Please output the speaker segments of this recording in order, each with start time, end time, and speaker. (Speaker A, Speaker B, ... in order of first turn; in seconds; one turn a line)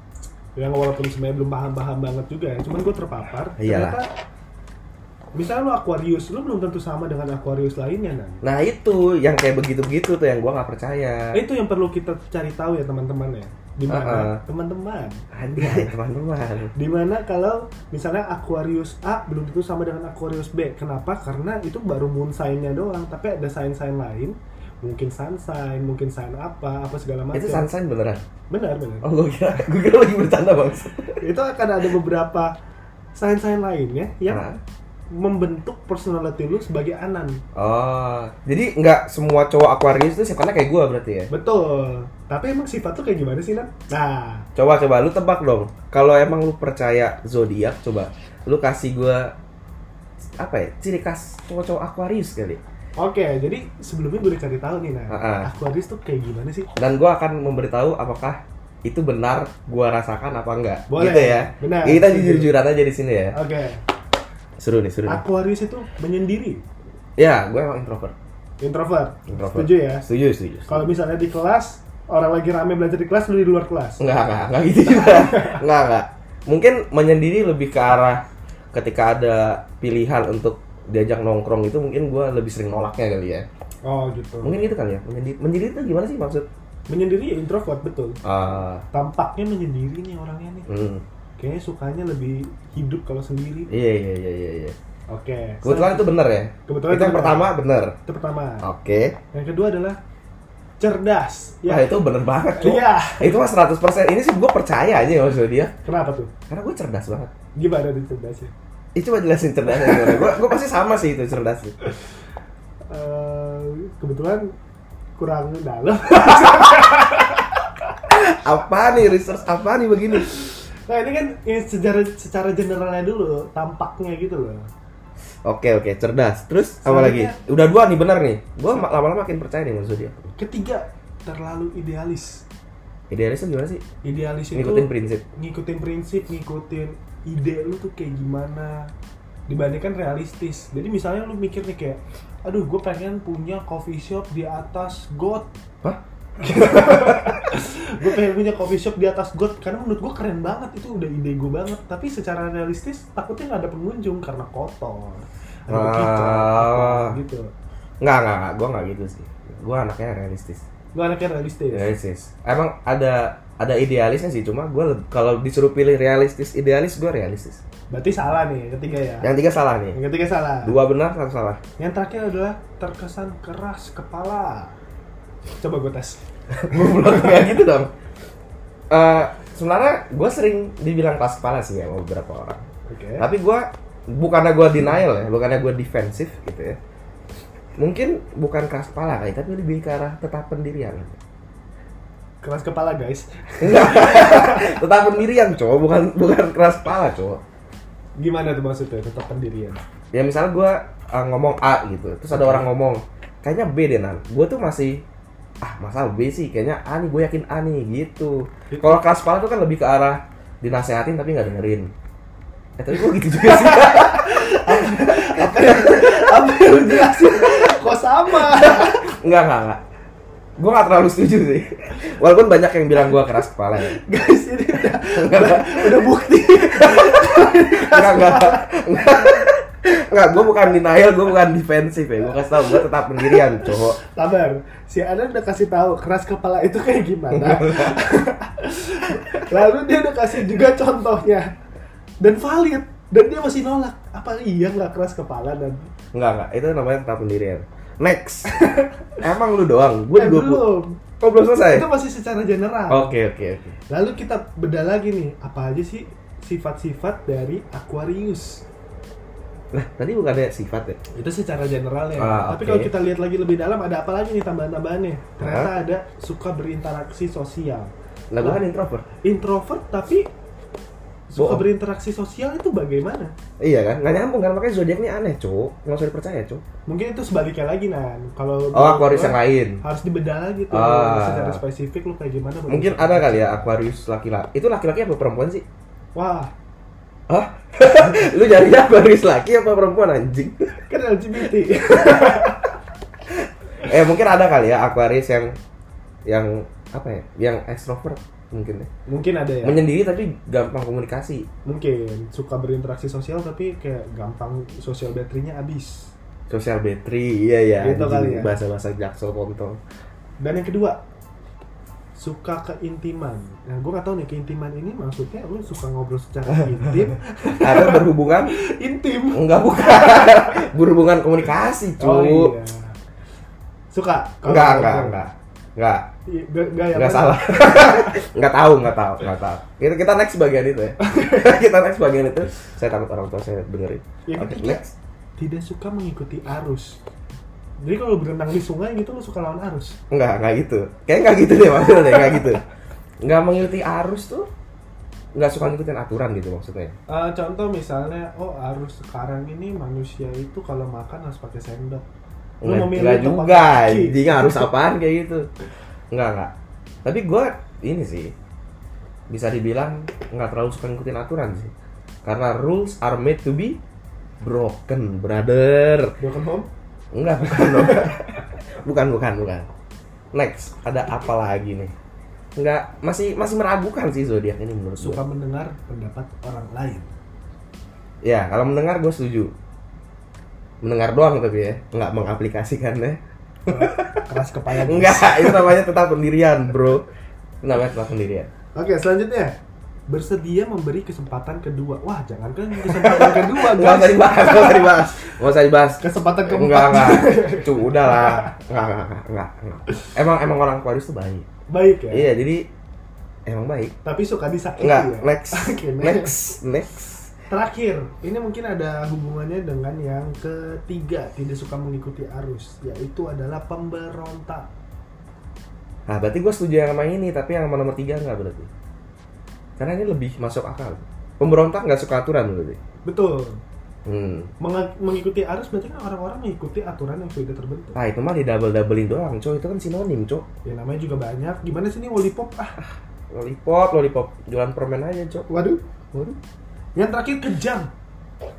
Speaker A: 0.6-4.1
Speaker B: 3.6-4.0
Speaker A: 5.3-8.4
Speaker B: 8.4-11.4
Speaker A: 11.3-15.9
Speaker B: 13.9-14.4
Speaker B: 15.3-16.7
Speaker A: 16.7-27.7
Speaker B: 27.3-28.2
Speaker A: 28.5-29.1
Speaker B: 29.0-31.2
Speaker A: 31.2-32.5
Speaker A: 33.1-34.4
Speaker B: 34.3-34.6
Speaker A: 35.1-37.4
Speaker B: 37.5-41.3
Speaker A: 41.3-44.5
Speaker B: 44.5-49.3
Speaker B: 50.4-52.6
Speaker A: 53.0-56.7
Speaker B: 55.1-55.5
Speaker B: 56.8-63.4
Speaker A: 60.9-62.5
Speaker A: 63.3-63.8
Speaker B: 64.6-65.2
Speaker A: 65.1-66.6
Speaker B: 67.2-68.2
Speaker A: 68.6-70.0
Speaker B: 69.3-70.8
Speaker A: 70.7-74.0
Speaker B: 74.0-83.5
Speaker A: 74.9-75.6
Speaker A: 83.8-84.6
Speaker B: 84.4-86.5
Speaker A: 86.9-88.2
Speaker B: 88.2-88.8
Speaker A: 88.9-90.7
Speaker B: 90.7-91.0
Speaker A: 91.4-93.7
Speaker B: 93.7-94.8
Speaker A: 95.1-96.1
Speaker B: 95.6-98.0
Speaker A: 96.7-97.5
Speaker A: 98.0-98.7
Speaker B: 98.6-99.2
Speaker A: 99.3-100.0
Speaker A: 100.8-101.9
Speaker B: 101.7-105.7
Speaker A: 102.5-103.4
Speaker A: 105.8-106.3
Speaker B: 106.5-107.3
Speaker A: 107.5-108.5
Speaker B: 108.9-111.8
Speaker A: 109.8-110.3
Speaker A: 112.9-114.5
Speaker A: 115.2-117.6
Speaker B: 118.1-120.3
Speaker A: 120.9-124.7
Speaker B: 125.4-130.3
Speaker A: 126.8-127.4
Speaker A: 130.3-132.4
Speaker B: 133.1-133.8
Speaker A: 134.0-138.9
Speaker B: 134.5-135.2
Speaker A: 139.5-145.5
Speaker B: 145.8-147.5
Speaker A: 146.4-157.5
Speaker B: 155.7-157.2
Speaker B: 158.0-160.6
Speaker A: 160.9-161.9
Speaker B: 161.7-167.6
Speaker A: 167.9-169.3
Speaker B: 169.2-170.0
Speaker A: 169.9-170.7
Speaker B: 170.6-171.6
Speaker A: 171.8-174.8
Speaker A: 175.6-177.4
Speaker B: 176.5-177.9
Speaker B: 178.9-182.7
Speaker A: 182.9-183.3
Speaker B: 183.2-186.8
Speaker B: 187.8-191.2
Speaker A: 192.4-194.7
Speaker B: 193.6-197.4
Speaker A: 198.2-199.8
Speaker B: 200.1-205.0
Speaker A: 202.3-202.6
Speaker B: 205.6-211.9
Speaker A: 208.7-209.0
Speaker B: 212.8-217.7
Speaker A: 213.2-219.1
Speaker B: 218.3-219.8
Speaker B: 220.6-224.0
Speaker A: 223.8-229.1
Speaker B: 225.0-234.0
Speaker A: 233.2-241.5
Speaker B: 237.3-238.0
Speaker A: 242.2-245.9
Speaker B: 246.1-248.6
Speaker A: 248.6-248.9
Speaker B: 249.2-250.7
Speaker A: 250.1-251.0
Speaker B: 251.2-251.9
Speaker A: 251.7-253.1
Speaker B: 252.9-253.8
Speaker A: 253.9-258.6
Speaker B: 259.7-261.0
Speaker A: 261.1-268.6
Speaker B: 262.2-262.9
Speaker B: 265.4-265.7
Speaker B: 268.3-269.1
Speaker A: 269.2-270.3
Speaker A: 271.3-273.3
Speaker B: 271.3-271.6
Speaker B: 273.6-276.6
Speaker A: 276.9-283.6
Speaker B: 278.7-279.8
Speaker B: 280.7-281.6
Speaker B: 282.7-285.6
Speaker A: 286.1-286.5
Speaker B: 287.3-290.8
Speaker A: 290.9-292.7
Speaker B: 291.9-292.5
Speaker B: 293.8-295.6
Speaker B: 296.2-298.9
Speaker A: 299.1-299.8
Speaker B: 299.6-301.5
Speaker A: 301.6-306.1
Speaker B: 306.5-309.8
Speaker A: 307.8-308.5
Speaker A: 310.4-311.0
Speaker A: 312.1-320.7
Speaker B: 316.8-317.1
Speaker B: 317.6-318.5
Speaker B: 319.3-322.5
Speaker A: 322.0-322.9
Speaker A: 323.9-325.2
Speaker B: 324.4-326.1
Speaker A: 326.3-328.2
Speaker B: 326.9-334.9
Speaker A: 331.0-331.5
Speaker A: 334.3-334.8
Speaker A: 335.4-337.0
Speaker A: 337.8-340.0
Speaker B: 340.1-342.6
Speaker B: 343.2-344.5
Speaker B: 345.3-346.9
Speaker A: 347.1-352.0
Speaker B: 352.6-355.5
Speaker A: 352.6-354.7
Speaker B: 356.1-356.5
Speaker B: 357.0-358.3
Speaker B: 359.3-361.7
Speaker B: 362.2-363.8
Speaker B: 364.4-366.1
Speaker A: 366.2-366.7
Speaker B: 367.1-369.7
Speaker A: 367.5-368.2
Speaker B: 370.3-371.9
Speaker B: 372.6-375.2
Speaker A: 375.0-377.1
Speaker B: 378.2-379.5
Speaker B: 380.8-384.2
Speaker A: 383.7-385.8
Speaker B: 384.8-387.1
Speaker B: 387.6-388.5
Speaker A: 388.7-389.6
Speaker A: 390.1-395.4
Speaker B: 392.8-401.5
Speaker A: 396.0-398.5
Speaker A: 401.7-402.3
Speaker B: 402.1-402.7
Speaker B: 403.4-403.9
Speaker A: 404.0-406.3
Speaker B: 404.8-407.3
Speaker A: 407.5-414.7
Speaker B: 416.1-418.7
Speaker B: 419.8-422.8
Speaker A: 423.1-423.6
Speaker B: 424.0-424.5
Speaker A: 424.6-428.0
Speaker B: 427.9-430.4
Speaker A: 430.6-432.8
Speaker B: 432.8-435.5
Speaker A: 435.5-435.8
Speaker B: 436.1-436.4
Speaker A: 436.9-437.9